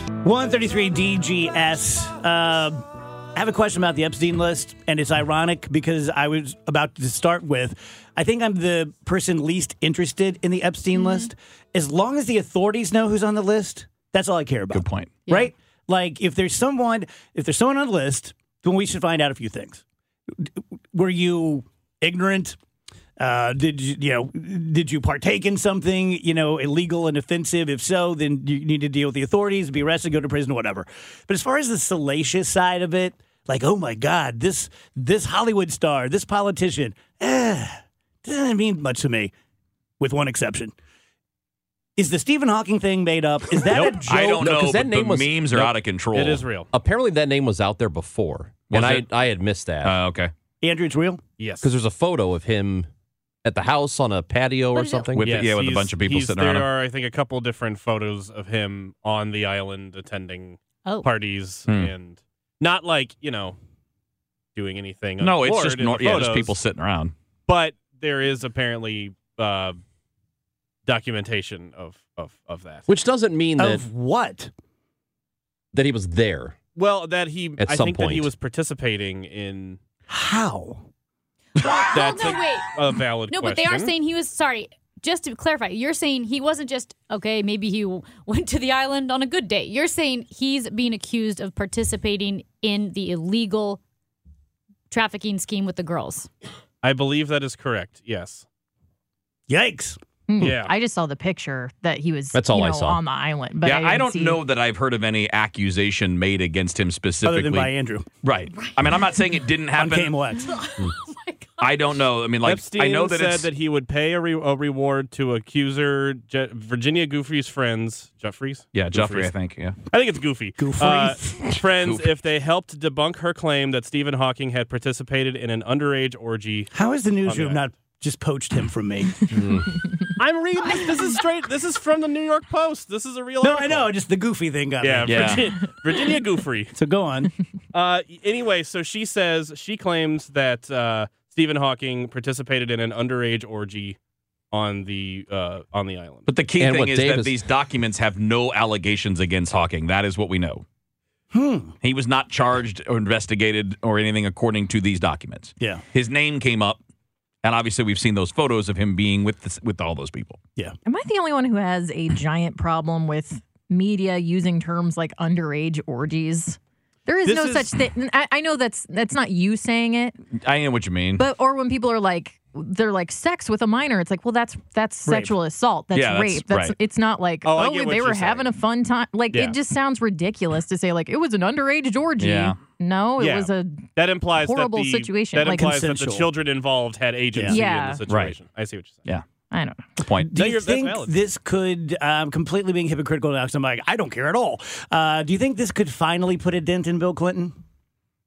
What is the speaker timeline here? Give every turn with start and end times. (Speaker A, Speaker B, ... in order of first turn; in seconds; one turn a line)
Speaker A: 0.2-2.8
Speaker A: 3.4-22.6
Speaker B: 10.9-11.3
Speaker C: 14.7-15.2
Speaker A: 23.2-39.3
Speaker A: 40.0-40.8
Speaker A: 42.0-44.5
Speaker D: 43.7-45.7
Speaker C: 43.8-46.5
Speaker E: 46.1-46.7
Speaker D: 46.7-50.0
Speaker C: 48.7-49.1
Speaker C: 49.8-50.3
Speaker A: 50.6-51.2
Speaker E: 51.4-51.7
Speaker D: 51.6-52.9
Speaker D: 53.4-55.5
Speaker B: 54.7-55.1
Speaker C: 55.1-56.7
Speaker E: 55.2-63.6
Speaker B: 60.9-61.1
Speaker C: 61.7-61.9
Speaker E: 64.5-66.6
Speaker C: 65.2-67.1
Speaker E: 67.5-69.8
Speaker E: 70.9-72.9
Speaker D: 72.9-73.8
Speaker A: 73.6-74.5
Speaker D: 75.7-76.6
Speaker E: 76.8-79.8
Speaker D: 77.6-78.3
Speaker A: 80.1-80.9
Speaker B: 81.6-82.7
Speaker E: 81.9-83.9
Speaker B: 83.3-93.8
Speaker B: 94.9-96.3
Speaker E: 96.8-98.4
Speaker A: 99.5-100.0
Speaker F: 100.3-104.4
Speaker E: 100.4-100.7
Speaker D: 102.3-103.0
Speaker C: 103.6-107.7
Speaker A: 107.2-108.1
Speaker C: 108.2-110.2
Speaker A: 109.8-110.5
Speaker B: 110.4-111.6
Speaker C: 111.6-113.5
Speaker E: 112.4-119.3
Speaker C: 118.7-119.8
Speaker E: 119.9-127.7
Speaker A: 120.6-121.5
Speaker A: 126.7-129.1
Speaker D: 129.3-129.7
Speaker E: 130.2-133.9
Speaker A: 133.4-135.7
Speaker E: 134.8-136.7
Speaker C: 135.1-135.4
Speaker A: 136.7-137.3
Speaker E: 137.7-144.0
Speaker E: 144.5-146.3
Speaker C: 146.3-150.6
Speaker D: 146.6-147.4
Speaker A: 151.3-151.7
Speaker C: 151.8-156.8
Speaker C: 157.4-160.4
Speaker F: 160.9-170.2
Speaker A: 167.3-167.6
Speaker C: 170.4-171.2
Speaker F: 171.2-185.8
Speaker A: 175.1-175.3
Speaker C: 175.9-176.7
Speaker E: 177.4-178.5
Speaker E: 179.3-179.6
Speaker C: 182.2-182.6
Speaker E: 183.2-189.1
Speaker A: 185.5-186.3
Speaker F: 187.5-188.0
Speaker C: 188.1-188.3
Speaker F: 189.5-190.0
Speaker C: 190.0-190.3
Speaker A: 190.2-197.6
Speaker E: 190.3-191.2